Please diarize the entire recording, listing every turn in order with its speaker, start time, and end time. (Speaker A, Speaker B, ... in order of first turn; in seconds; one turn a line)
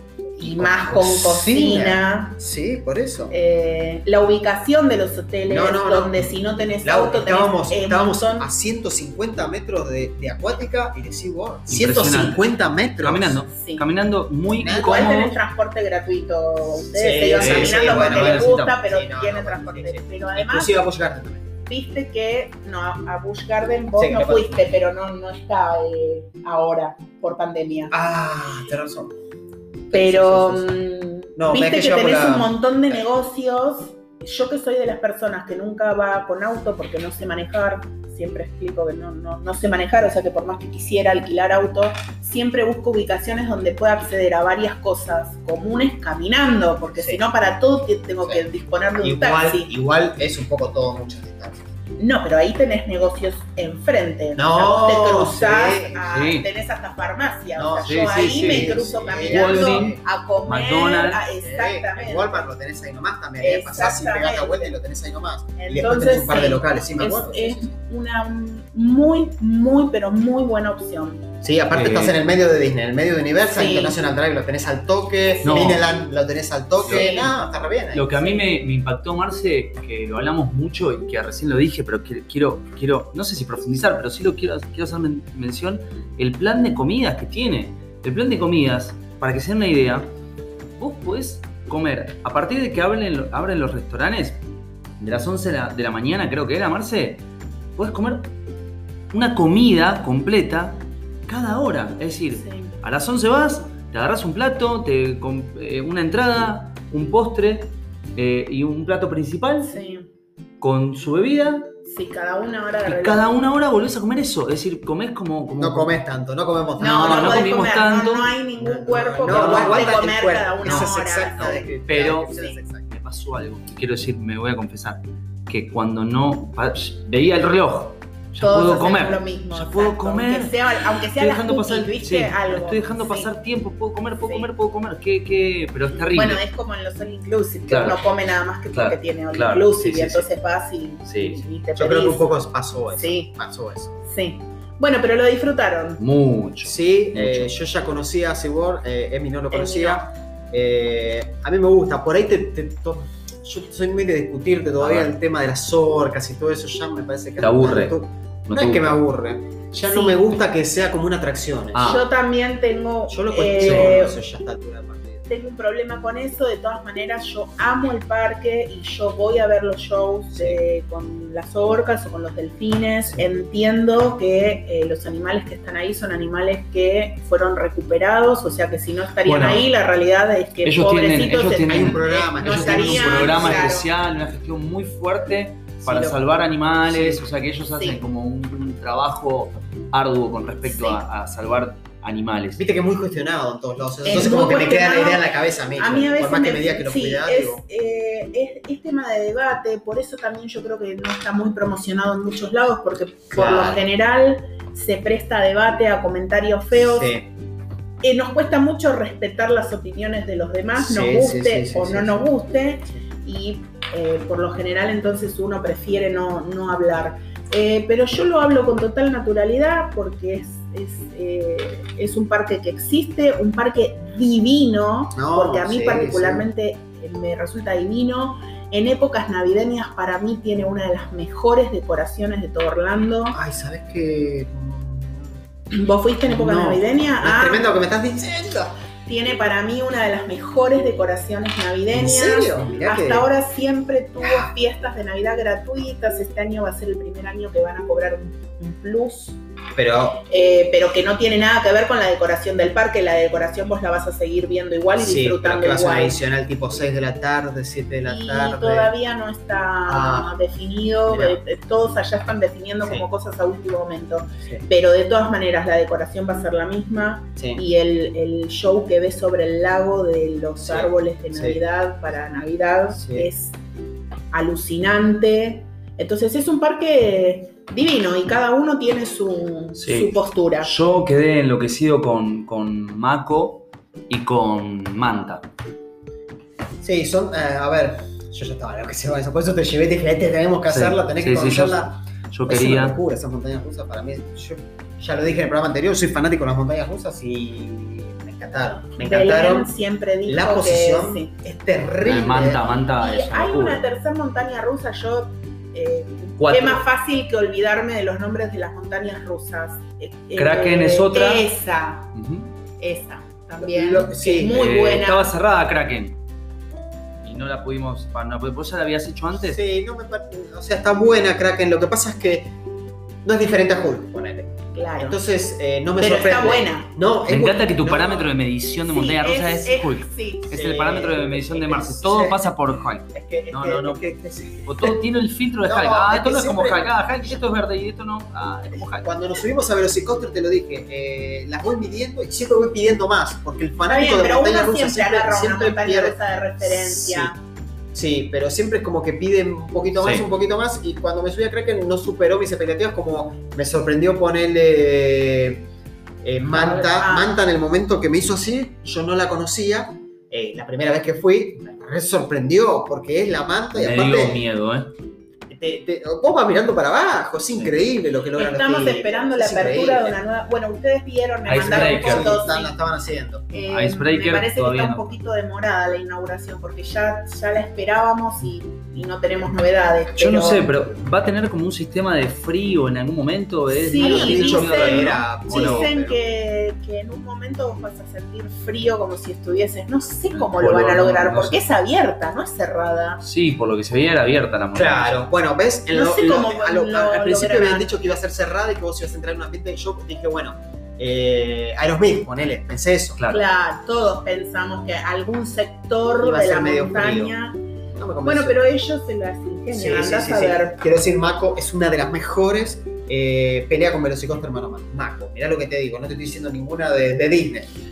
Speaker A: 0.4-2.4
Speaker B: 0.4-3.3
Speaker A: 3.3-8.5
Speaker B: 5.5-6.3
Speaker B: 6.8-13.4
Speaker C: 11.7-12.4
Speaker C: 13.0-15.4
Speaker A: 13.5-13.9
Speaker B: 14.5-15.1
Speaker A: 14.7-20.9
Speaker B: 16.9-21.5
Speaker C: 17.4-18.8
Speaker A: 21.7-27.9
Speaker B: 24.0-24.8
Speaker B: 27.9-29.1
Speaker B: 29.9-30.8
Speaker A: 29.9-49.7
Speaker B: 31.4-33.0
Speaker B: 49.0-51.6
Speaker A: 52.0-62.5
Speaker B: 54.4-56.0
Speaker C: 56.1-56.5
Speaker B: 57.6-60.0
Speaker C: 57.9-61.2
Speaker B: 61.4-67.7
Speaker A: 63.4-64.7
Speaker A: 65.6-71.3
Speaker B: 71.4-78.1
Speaker C: 71.7-72.2
Speaker A: 73.5-74.0
Speaker C: 75.5-75.8
Speaker C: 76.8-77.1
Speaker A: 76.8-77.3
Speaker C: 77.9-90.1
Speaker A: 78.2-78.5
Speaker C: 90.8-94.4
Speaker C: 95.0-97.2
Speaker C: 97.8-98.3
Speaker C: 99.1-109.8
Speaker A: 102.3-102.8
Speaker A: 109.6-110.1
Speaker C: 110.6-111.7
Speaker A: 111.8-113.3
Speaker C: 112.8-115.9
Speaker B: 115.6-117.5
Speaker A: 116.8-121.7
Speaker C: 116.8-118.3
Speaker B: 118.6-122.9
Speaker C: 119.2-120.0
Speaker C: 120.6-122.3
Speaker A: 122.3-122.6
Speaker C: 122.9-136.4
Speaker A: 128.4-133.3
Speaker A: 134.2-134.5
Speaker A: 136.1-142.3
Speaker C: 137.7-138.0
Speaker C: 138.7-140.3
Speaker C: 141.1-141.4
Speaker B: 141.8-143.9
Speaker A: 142.9-143.3
Speaker A: 144.0-146.0
Speaker C: 146.0-147.5
Speaker B: 146.6-161.9
Speaker A: 149.5-150.1
Speaker C: 154.8-155.1
Speaker C: 157.4-159.0
Speaker A: 159.8-160.2
Speaker C: 161.7-162.1
Speaker A: 161.8-164.2
Speaker B: 163.1-165.3
Speaker C: 163.6-164.1
Speaker A: 165.3-183.9
Speaker B: 170.3-170.6
Speaker C: 179.2-179.7
Speaker C: 180.6-192.6
Speaker B: 181.7-183.8
Speaker B: 185.8-186.2
Speaker B: 186.8-187.2
Speaker A: 187.7-188.0
Speaker A: 190.6-191.0
Speaker B: 192.6-197.6
Speaker A: 194.1-195.2
Speaker A: 195.8-207.2
Speaker B: 203.3-203.8
Speaker B: 206.7-207.3
Speaker A: 208.0-233.4
Speaker B: 210.8-212.3
Speaker B: 225.1-226.5
Speaker B: 233.3-235.4
Speaker A: 235.7-237.7
Speaker B: 236.3-238.7
Speaker A: 239.1-249.4
Speaker B: 241.9-243.3
Speaker B: 244.2-244.5
Speaker B: 249.8-250.2
Speaker A: 250.3-256.2
Speaker B: 255.0-258.9
Speaker A: 258.1-273.6
Speaker B: 259.9-260.3
Speaker B: 261.1-261.4
Speaker B: 270.6-271.6
Speaker B: 273.0-273.3
Speaker A: 274.3-280.7
Speaker C: 279.8-285.4
Speaker B: 286.8-299.7
Speaker C: 290.7-293.0
Speaker A: 299.0-301.3
Speaker B: 300.3-302.7
Speaker C: 302.0-303.8
Speaker A: 302.9-312.1
Speaker C: 306.4-306.8
Speaker C: 310.4-311.5
Speaker C: 312.1-312.5
Speaker A: 312.8-315.3
Speaker B: 313.6-314.8
Speaker C: 314.5-316.1
Speaker C: 317.2-319.6
Speaker B: 319.4-322.5
Speaker B: 323.2-328.3
Speaker A: 324.7-325.2
Speaker A: 326.0-326.9
Speaker C: 327.3-334.0
Speaker A: 328.9-330.6
Speaker B: 330.5-332.5
Speaker B: 333.1-335.0
Speaker C: 334.6-339.1
Speaker B: 335.6-337.6
Speaker B: 338.7-347.3
Speaker A: 343.9-347.4
Speaker B: 347.9-355.7
Speaker C: 350.0-350.3
Speaker B: 356.2-364.4
Speaker A: 356.5-357.4
Speaker C: 363.7-364.9
Speaker B: 365.5-370.2
Speaker A: 368.4-372.8
Speaker C: 371.5-372.4
Speaker B: 371.5-373.5
Speaker A: 373.5-380.7
Speaker C: 373.6-375.1
Speaker C: 380.2-385.9
Speaker A: 383.7-393.2
Speaker B: 383.9-386.2
Speaker C: 390.4-391.6
Speaker C: 393.2-395.1
Speaker B: 394.7-403.2
Speaker A: 395.9-397.9
Speaker A: 403.3-407.6
Speaker B: 406.2-407.3
Speaker B: 408.0-408.6
Speaker A: 408.2-410.8
Speaker B: 409.7-417.7